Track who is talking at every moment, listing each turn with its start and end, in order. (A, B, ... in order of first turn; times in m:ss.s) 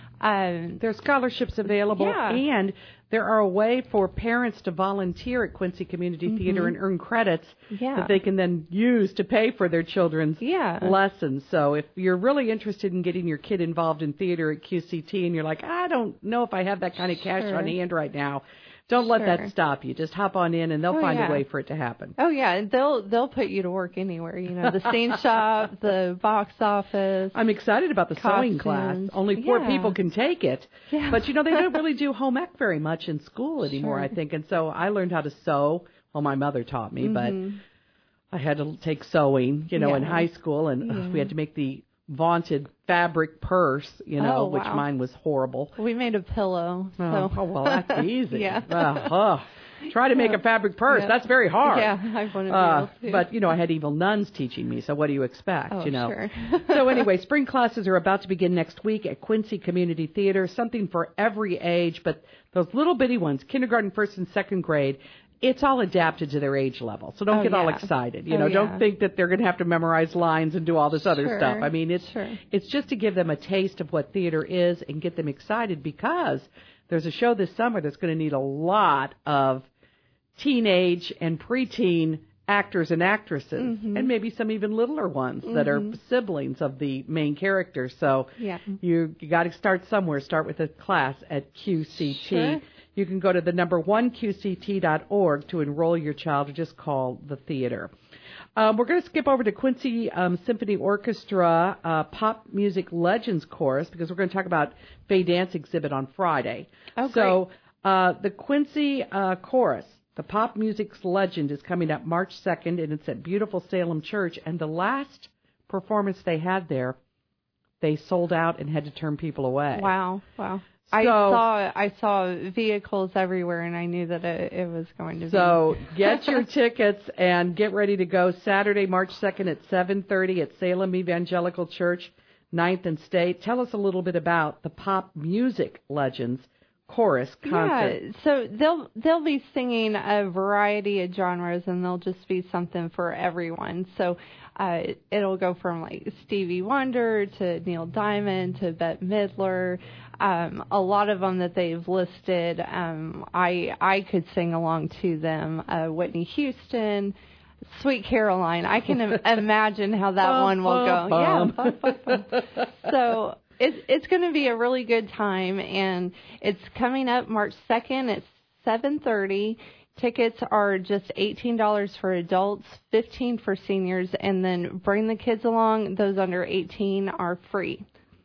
0:00.2-0:00.8 A
0:00.8-0:22.2 B
0:01.9-0:02.4 A
0:06.3-0:06.7 A
0:07.7-0:08.2 A
0:10.4-0:10.9 A
0:17.4-0:17.7 A
0:19.1-0:19.5 A
0:20.9-0:21.4 A
0:22.2-0:27.4 A
0:27.3-0:37.4 B
0:28.2-0:30.0 A
0:30.9-0:31.7 A
0:33.8-0:34.1 A
0:37.0-0:37.6 A
0:38.3-0:45.8 B
0:39.8-0:40.2 A
0:40.9-0:41.3 A
0:44.2-0:44.8 A
0:45.8-0:49.1 A
0:47.0-0:51.9 B
0:51.6-0:53.3 A
0:52.5-1:19.7 B
0:55.7-0:57.0 A
1:07.3-1:08.8 A
1:11.2-1:12.4 A
1:20.4-1:37.9 B
1:23.6-1:24.1 A
1:25.5-1:25.9 A
1:28.4-1:28.7 A
1:32.1-1:32.6 A
1:38.6-1:57.0 B
1:47.0-1:47.4 A
1:57.8-1:59.9 B
1:59.8-2:06.4 A
2:00.9-2:01.4 B
2:05.3-2:18.0 B
2:17.5-2:37.2 A
2:37.7-2:57.9 A
2:40.2-2:42.4 B